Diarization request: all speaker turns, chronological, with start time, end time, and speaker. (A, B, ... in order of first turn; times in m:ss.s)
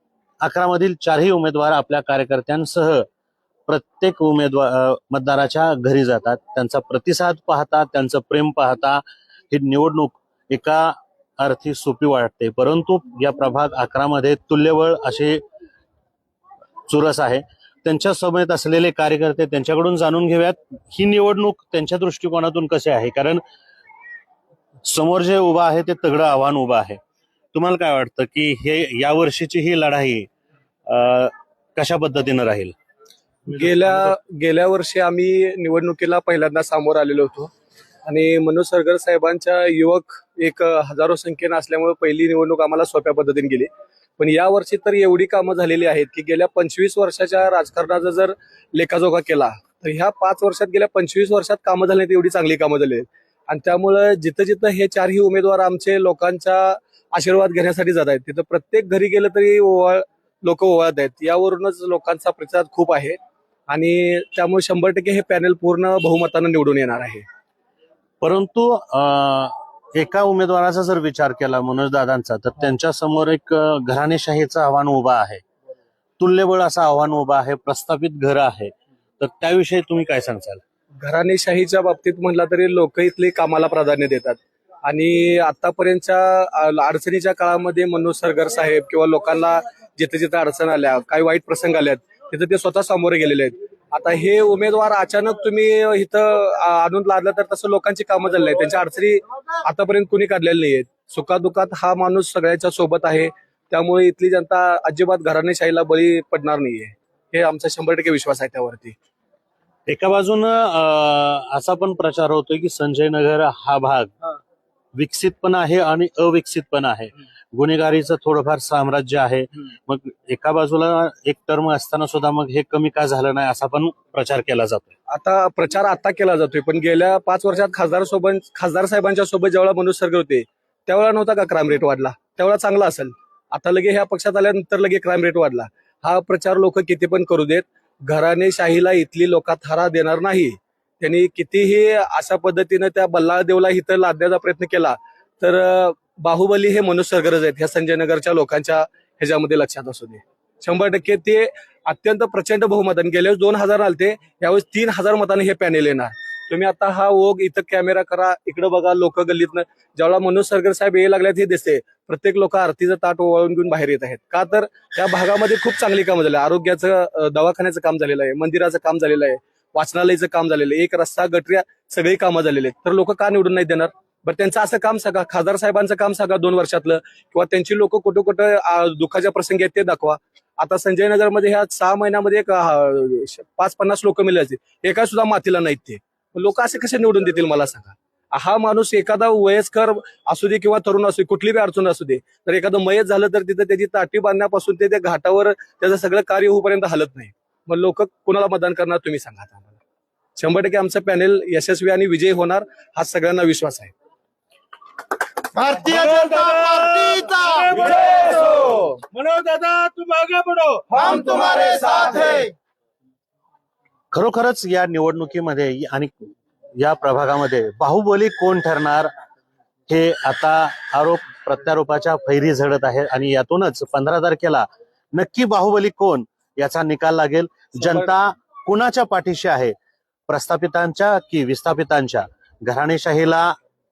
0:00.4-0:03.1 A
0:03.7-0:15.4 A
0:16.9-0:23.4 A
0:24.8-0:27.0 A
0:27.5-0:30.3 A
0:30.9-0:32.7 A
0:33.5-0:37.5 B
0:38.0-1:03.2 B
1:03.7-1:07.2 B
1:08.2-1:15.4 A
1:16.2-1:20.6 A
1:21.0-1:49.0 B
1:49.9-1:54.1 A
1:54.9-2:04.9 A
2:05.1-3:19.8 B
3:20.4-3:23.9 B
3:25.6-3:27.3 C
3:25.8-3:31.0 D
3:27.8-3:28.8 B
3:31.0-3:32.4 B
3:31.6-3:32.3 C
3:34.1-3:39.1 A
3:39.9-3:49.7 A
3:50.3-3:53.5 A